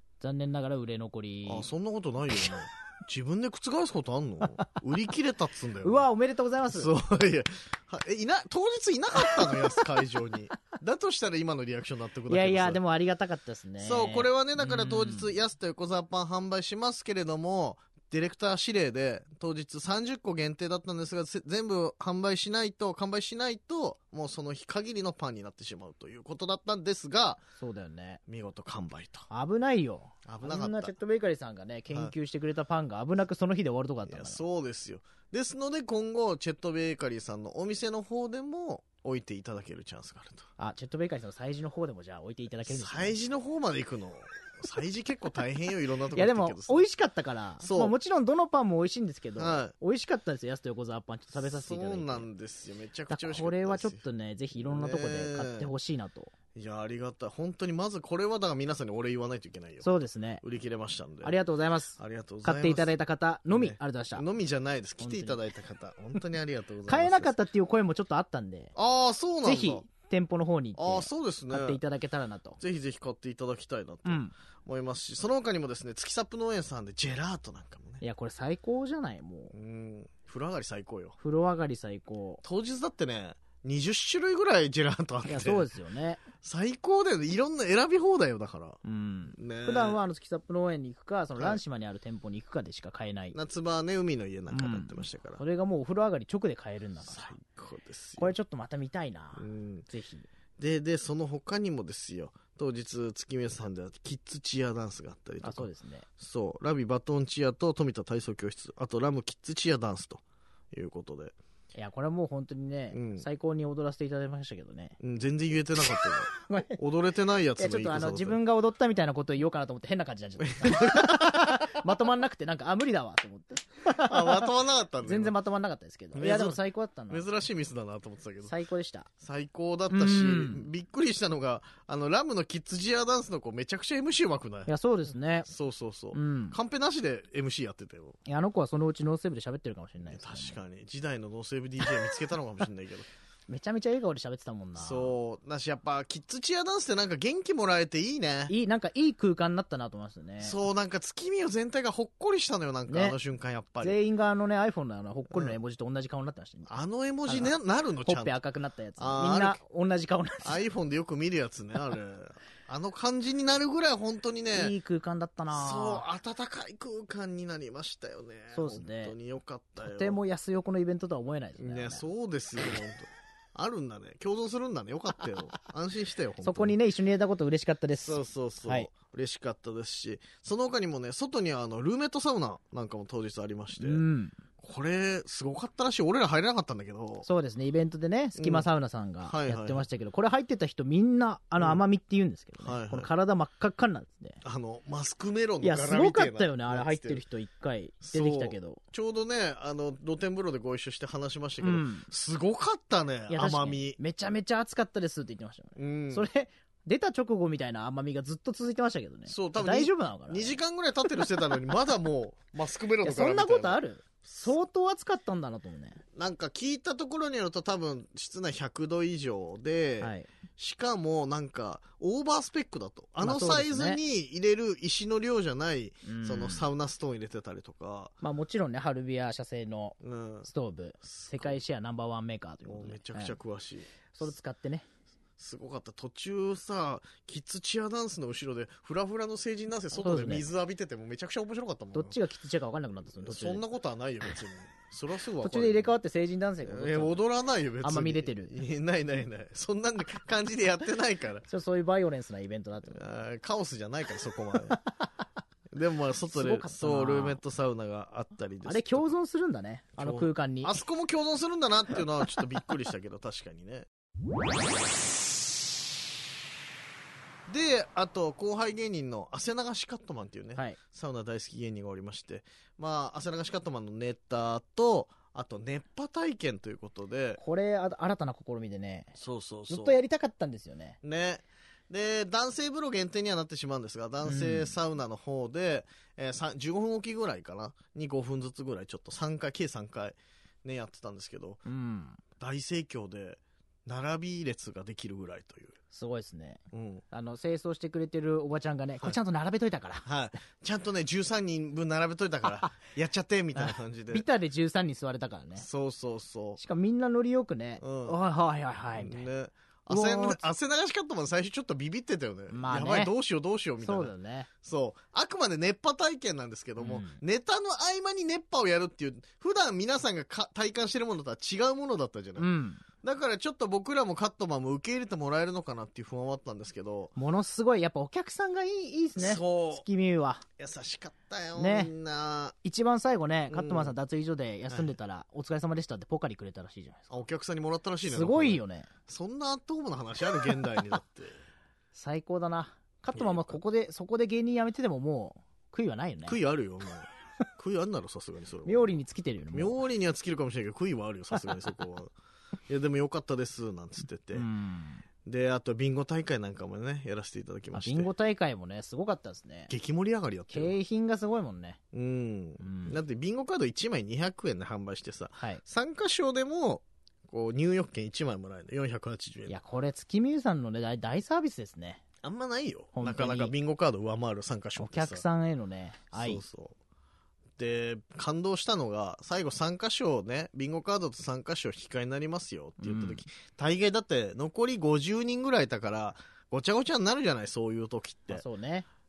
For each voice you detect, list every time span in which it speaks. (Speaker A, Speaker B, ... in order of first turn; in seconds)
Speaker A: 0.2-1.7, 5.8-6.9, 9.3-9.7, 12.3-15.3, 27.6-28.2, 29.3-34.4, 40.6-43.2, 46.1-52.3, 53.1-56.3, 59.8-60.4, 61.2-64.2, 65.0-65.4, 66.9-68.7, 69.4-72.6, 74.0-74.3, 78.0-79.5, 81.2-82.4, 85.3-86.2, 88.8-93.4, 94.5-97.3, 98.2-100.3, 105.4-106.1, 111.8-115.0, 116.0-116.8, 117.6-124.5, 125.0-127.3, 128.4-129.1, 129.9-130.7, 134.7-135.5, 136.1-136.6, 138.3-140.6, 143.5-145.2, 148.5-150.6, 152.9-153.2, 153.8-156.7, 157.3-157.5, 158.1-160.6, 164.5-166.1, 168.5-169.2, 169.8-172.1, 176.4-178.9, 183.8-184.4, 187.2-194.4, 195.6-198.8, 201.6-202.1, 203.3-210.6, 213.0-216.0, 220.0-220.3, 223.2-224.0, 226.1-226.7, 228.2-233.4, 234.1-234.8, 239.9-240.5, 241.9-243.6, 245.4-247.2, 247.8-248.5, 251.5-253.0, 256.3-257.4, 258.6-260.8, 277.4-279.1, 279.7-281.0, 284.2-284.7, 291.7-292.2, 295.9-300.1, 303.6-305.7, 306.6-309.2, 309.9-310.4, 312.5-313.1, 313.8-314.5, 316.8-317.2, 322.4-322.8, 327.2-330.4, 331.6-331.9, 332.6-337.2, 338.1-338.9, 341.9-346.4, 348.7-349.8, 351.3-351.6, 354.3-355.1, 357.7-359.7, 360.5-361.8, 362.6-363.0, 369.5-372.0, 373.0-373.5, 374.8-376.4, 382.8-383.2, 388.3-388.9
Speaker B: 1.5-6.1, 6.7-12.8, 13.8-27.4, 28.3-29.3, 30.3-30.9, 34.1-40.5, 42.7-46.9, 47.6-47.9, 49.4-49.7, 51.4-54.0, 54.6-55.7, 56.5-61.4, 62.0-62.9, 63.5-67.3, 68.8-69.8, 70.8-71.8, 72.6-78.0, 79.5-81.2, 82.4-85.7, 86.4-88.8, 89.3-90.0, 93.3-95.4, 97.1-98.3, 99.4-99.9, 100.6-105.7, 106.2-110.2, 110.7-111.4, 112.9-113.2, 115.0-118.4, 120.5-121.8, 123.9-125.3, 126.2-128.5, 129.2-134.7, 135.4-138.2, 140.1-143.1, 144.8-148.6, 150.4-154.0, 155.3-155.6, 156.7-158.4, 159.0-159.6, 160.4-164.7, 165.5-170.2, 171.6-176.8, 178.0-184.0, 184.6-187.3, 188.4-188.7, 189.2-189.9, 191.6-191.8, 192.6-193.1, 194.4-197.2, 198.0-204.0, 205.8-206.3, 209.3-214.5, 216.2-228.2, 230.0-230.5, 231.0-231.6, 232.7-234.1, 235.4-242.2, 243.2-246.0, 246.7-251.5, 252.8-254.8, 255.7-259.1, 260.0-263.9, 267.5-277.4, 279.2-280.0, 281.0-291.6, 292.4-295.8, 296.7-297.0, 300.1-304.3, 305.6-306.6, 307.8-308.2, 309.0-314.1, 314.6-322.5, 323.0-327.1, 329.2-329.8, 330.6-332.6, 333.5-333.9, 334.7-334.9, 337.1-341.4, 343.1-343.6, 346.3-349.0, 349.5-352.1, 352.7-354.5, 355.2-358.1, 359.7-360.8, 361.9-369.6, 372.2-375.2, 376.1-376.8, 377.6-388.4